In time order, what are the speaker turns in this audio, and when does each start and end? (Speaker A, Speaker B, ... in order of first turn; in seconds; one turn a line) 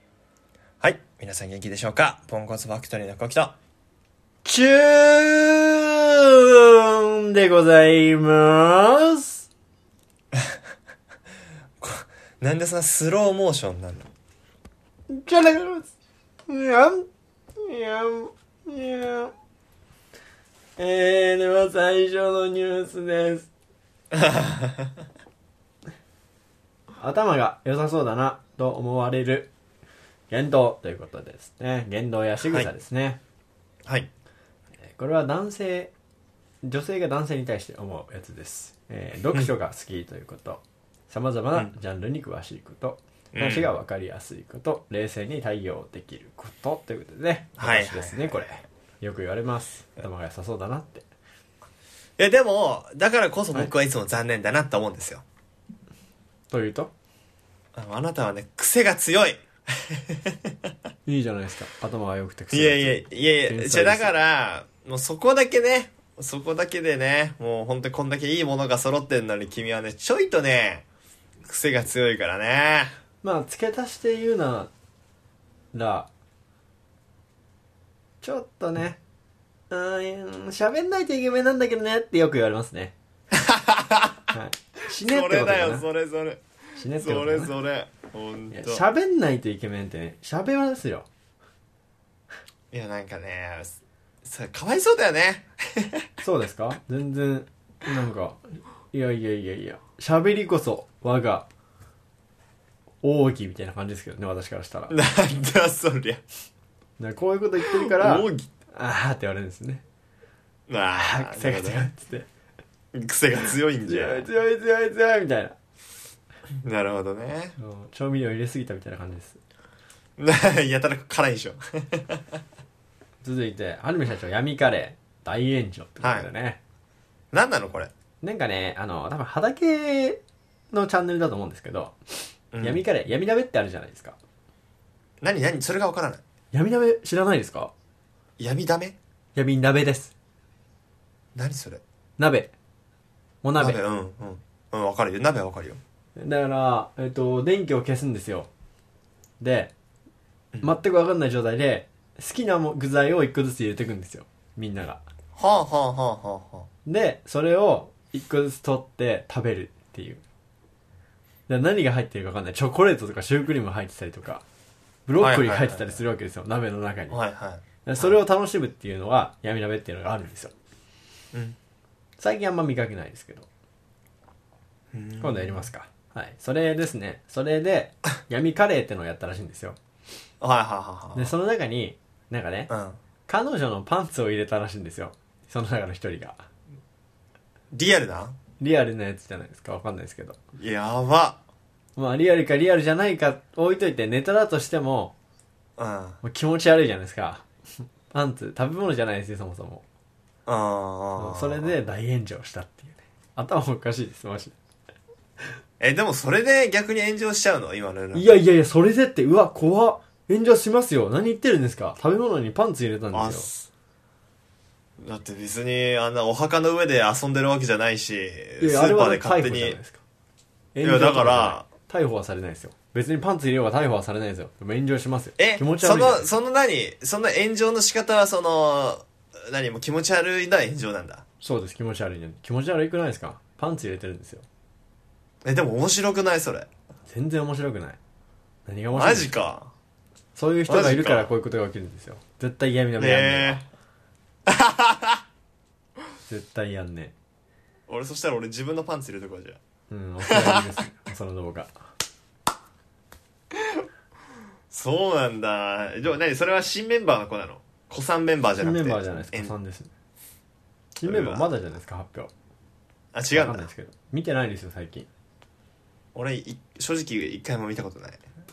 Speaker A: 0.8-3.6
Speaker B: 4.4-9.4
Speaker A: 11.8-14.1
Speaker B: 15.1-15.9
Speaker B: 16.5-19.3
Speaker B: 20.8-23.5
Speaker A: 24.1-24.9
Speaker B: 27.0-29.5
Speaker B: 30.3-33.2
Speaker B: 34.8-35.9
Speaker B: 36.6-51.0
Speaker A: 43.3-43.7
Speaker A: 47.6-48.4
Speaker A: 52.2-55.2
Speaker B: 56.5-56.9
Speaker A: 57.7-60.7
Speaker B: 61.0-64.1
Speaker A: 62.5-70.8
Speaker A: 71.4-72.9
Speaker B: 73.2-74.7
Speaker B: 75.7-76.1
Speaker B: 78.2-79.0
Speaker B: 79.7-82.9
Speaker A: 83.3-84.2
Speaker B: 84.3-85.8
Speaker A: 84.9-86.4
Speaker B: 86.8-87.5
Speaker A: 87.0-88.8
Speaker B: 88.5-91.1
Speaker A: 92.7-96.1
Speaker B: 96.2-101.5
Speaker B: 103.0-104.9
Speaker A: 104.9-106.2
Speaker B: 107.0-109.8
Speaker A: 107.8-108.5
Speaker A: 110.7-111.9
Speaker B: 111.0-112.3
Speaker A: 112.9-114.3
Speaker B: 113.8-115.6
Speaker A: 116.5-117.5
Speaker B: 117.6-119.4
Speaker A: 120.2-122.4
Speaker B: 123.2-126.6
Speaker A: 126.0-126.3
Speaker A: 127.3-127.9
Speaker B: 128.2-130.2
Speaker B: 130.7-134.2
Speaker A: 132.5-132.8
Speaker A: 135.2-136.2
Speaker B: 136.5-137.7
Speaker A: 138.4-138.9
Speaker B: 139.3-140.1
Speaker A: 141.3-141.8
Speaker B: 142.2-142.5
Speaker B: 143.4-143.8
Speaker A: 143.6-145.8
Speaker B: 146.2-148.5
Speaker B: 149.4-149.7
Speaker B: 150.6-155.0
Speaker A: 155.3-156.7
Speaker B: 156.8-160.2
Speaker B: 161.5-164.4
Speaker B: 165.1-167.2
Speaker A: 165.2-166.0
Speaker A: 167.1-168.2
Speaker B: 167.8-170.5
Speaker B: 172.2-173.5
Speaker A: 174.9-175.7
Speaker B: 175.2-179.8
Speaker A: 180.4-181.3
Speaker B: 181.1-182.7
Speaker A: 182.7-183.0
Speaker B: 183.3-186.4
Speaker A: 187.7-188.3
Speaker B: 188.6-190.4
Speaker A: 190.6-191.4
Speaker B: 191.9-195.1
Speaker A: 195.8-196.2
Speaker B: 196.2-197.4
Speaker B: 198.1-199.8
Speaker A: 200.4-201.7
Speaker B: 201.2-204.6
Speaker A: 205.8-208.3
Speaker B: 208.1-213.5
Speaker A: 213.1-213.7
Speaker A: 215.0-219.8
Speaker B: 218.6-220.0
Speaker B: 220.7-226.3
Speaker A: 220.8-221.6
Speaker A: 225.4-231.2
Speaker B: 231.4-234.4
Speaker A: 235.4-236.7
Speaker B: 237.1-238.0
Speaker B: 238.7-239.3
Speaker A: 238.9-239.7
Speaker B: 240.3-243.6
Speaker A: 240.7-241.3
Speaker A: 243.0-243.6
Speaker A: 244.4-245.2
Speaker B: 246.2-247.1
Speaker A: 247.9-249.6
Speaker B: 249.9-251.7
Speaker A: 250.3-250.7
Speaker A: 254.7-259.5
Speaker B: 258.6-259.9
Speaker B: 261.0-262.3
Speaker A: 261.0-261.5
Speaker A: 263.1-263.7
Speaker B: 263.3-265.1
Speaker A: 266.1-268.2